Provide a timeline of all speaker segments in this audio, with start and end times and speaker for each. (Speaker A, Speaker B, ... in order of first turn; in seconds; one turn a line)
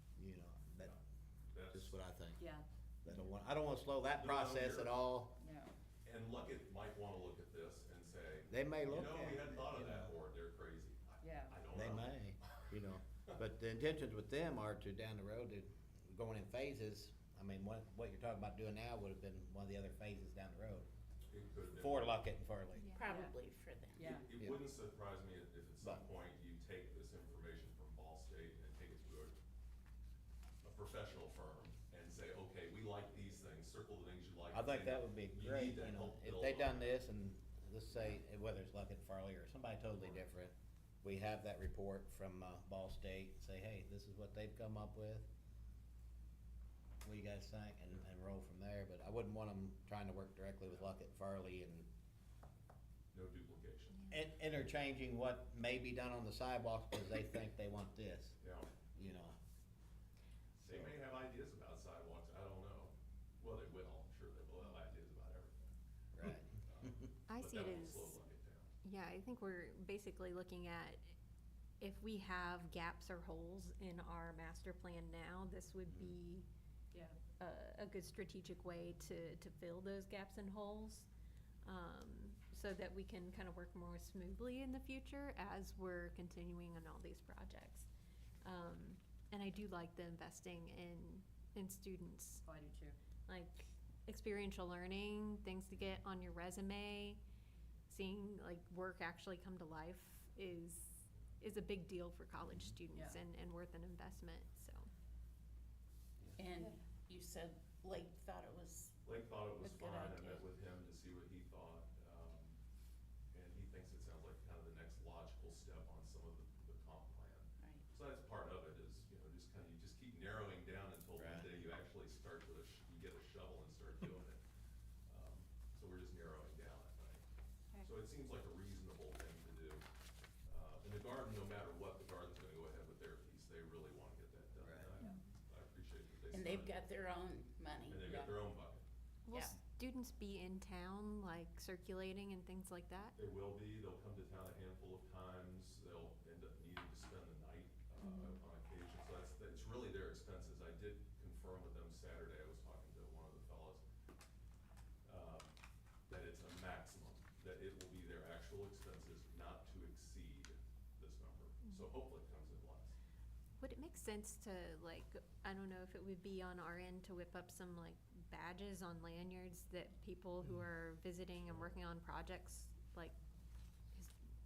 Speaker A: 0.2-0.9
Speaker B: 1.5-2.0
Speaker A: 1.7-2.4
Speaker C: 2.4-2.7
Speaker A: 3.0-5.3
Speaker B: 4.1-5.0
Speaker C: 5.4-5.7
Speaker B: 6.0-12.7
Speaker A: 8.5-10.1
Speaker C: 11.2-11.6
Speaker A: 11.7-20.9
Speaker B: 21.3-22.3
Speaker A: 21.7-22.9
Speaker D: 22.7-23.0
Speaker E: 23.0-24.1
Speaker C: 23.1-23.4
Speaker C: 23.9-24.3
Speaker B: 24.0-29.4
Speaker A: 25.8-26.1
Speaker B: 30.6-37.0
Speaker A: 34.5-45.2
Speaker A: 47.0-51.9
Speaker B: 53.1-54.0
Speaker A: 54.1-58.4
Speaker B: 58.4-58.7
Speaker A: 58.9-59.4
Speaker B: 60.6-65.7
Speaker A: 60.6-60.9
Speaker A: 66.1-66.5
Speaker B: 66.5-68.7
Speaker D: 67.3-68.2
Speaker D: 68.8-71.0
Speaker D: 71.8-76.5
Speaker A: 75.9-76.2
Speaker C: 76.9-77.2
Speaker D: 77.3-81.1
Speaker D: 81.6-87.9
Speaker D: 88.4-92.4
Speaker C: 92.5-93.0
Speaker D: 93.3-97.2
Speaker D: 97.9-104.9
Speaker E: 106.4-109.0
Speaker B: 109.0-112.6
Speaker E: 109.6-110.4
Speaker B: 113.3-124.4
Speaker A: 121.2-121.5
Speaker B: 125.1-127.2
Speaker B: 127.8-129.8
Speaker B: 130.5-136.9
Speaker A: 134.6-134.9
Speaker E: 136.3-138.0
Speaker B: 137.9-138.8
Speaker C: 138.0-138.4
Speaker D: 139.2-143.2
Speaker E: 139.3-139.6
Speaker B: 143.2-153.8
Speaker D: 148.0-148.4
Speaker B: 155.0-155.5
Speaker B: 156.1-162.9
Speaker D: 163.6-173.2
Speaker B: 171.4-171.8